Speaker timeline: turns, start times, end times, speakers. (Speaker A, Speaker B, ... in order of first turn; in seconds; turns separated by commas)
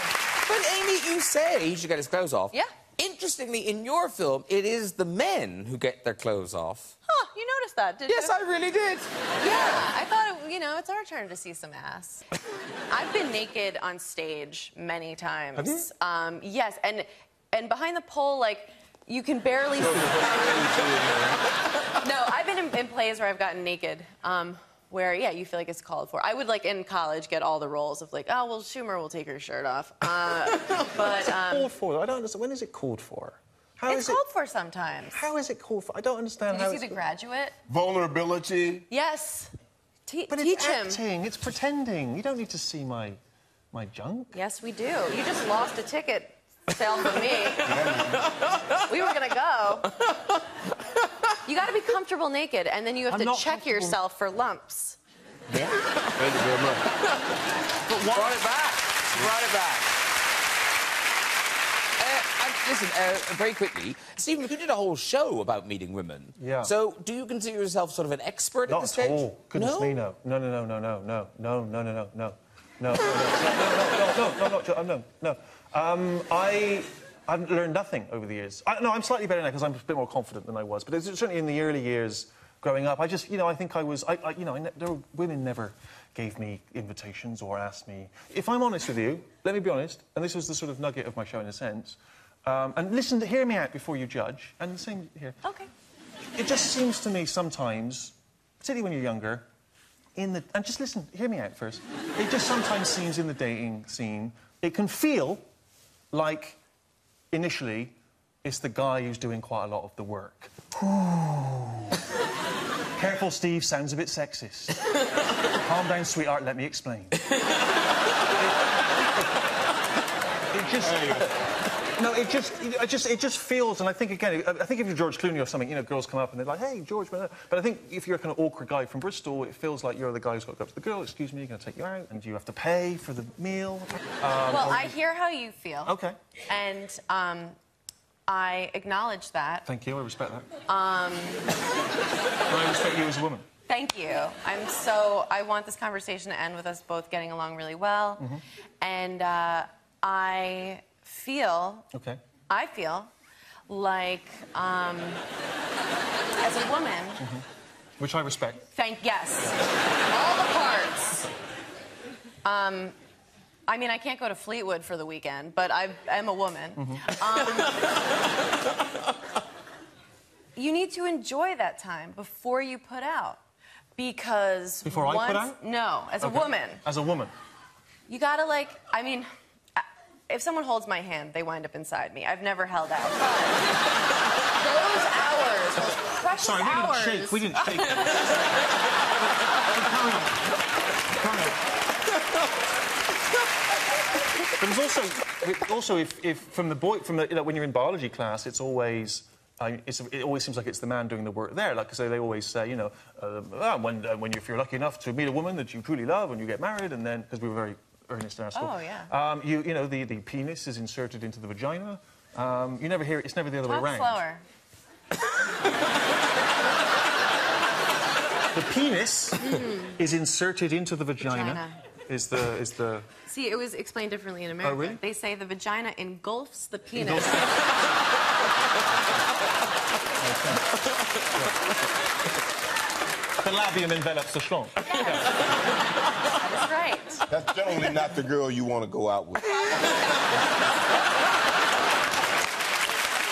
Speaker A: 0.5-7.0, Speaker B: 7.1-8.4, Speaker A: 8.1-9.9, Speaker B: 9.4-12.2, Speaker B: 12.9-20.8, Speaker C: 20.3-21.4, Speaker B: 22.0-31.7, Speaker D: 31.3-34.2, Speaker B: 33.9-35.3, Speaker D: 35.1-37.0, Speaker B: 36.5-37.6, Speaker C: 37.7-38.9, Speaker B: 38.9-39.5, Speaker B: 40.1-41.0, Speaker D: 40.3-43.2, Speaker D: 43.7-44.4, Speaker B: 44.3-48.0, Speaker C: 47.6-48.3, Speaker B: 48.9-49.9, Speaker B: 51.5-55.0, Speaker D: 53.1-54.0, Speaker C: 56.2-56.8, Speaker A: 57.9-59.9, Speaker D: 57.9-58.4, Speaker A: 62.0-70.0, Speaker D: 66.4-66.7, Speaker D: 68.7-95.4, Speaker B: 95.5-95.7, Speaker D: 96.4-99.5, Speaker D: 100.2-105.5, Speaker D: 106.1-106.6, Speaker D: 107.3-112.0, Speaker D: 113.0-114.9, Speaker D: 115.5-117.2, Speaker D: 118.4-118.7, Speaker D: 120.5-121.3, Speaker C: 120.8-121.3, Speaker D: 122.0-135.0, Speaker B: 134.5-136.0, Speaker D: 135.8-136.2, Speaker B: 136.5-137.6, Speaker B: 138.3-139.7, Speaker D: 139.7-140.5, Speaker B: 140.7-141.5, Speaker D: 142.5-143.5, Speaker B: 143.7-151.9, Speaker D: 151.9-152.2, Speaker B: 152.5-153.1, Speaker B: 153.7-155.2, Speaker B: 156.4-157.2, Speaker D: 157.2-157.5, Speaker D: 158.0-158.7, Speaker B: 158.8-161.3, Speaker B: 162.4-162.9, Speaker B: 163.7-167.8, Speaker D: 166.8-167.1, Speaker B: 170.6-173.4, Speaker B: 174.0-176.8, Speaker D: 174.8-175.6, Speaker D: 176.2-177.3, Speaker B: 178.1-183.6, Speaker B: 184.6-187.6, Speaker D: 186.3-188.5, Speaker D: 189.1-190.5, Speaker D: 191.1-191.6, Speaker D: 194.6-214.2, Speaker B: 208.6-209.1, Speaker B: 213.7-214.4, Speaker D: 218.5-223.1, Speaker B: 219.4-219.9, Speaker B: 221.2-221.8, Speaker B: 223.3-227.6, Speaker D: 224.6-225.0, Speaker C: 227.1-227.4, Speaker D: 230.2-230.7, Speaker D: 233.4-235.3, Speaker B: 234.9-235.3, Speaker B: 236.4-237.3, Speaker C: 237.3-239.7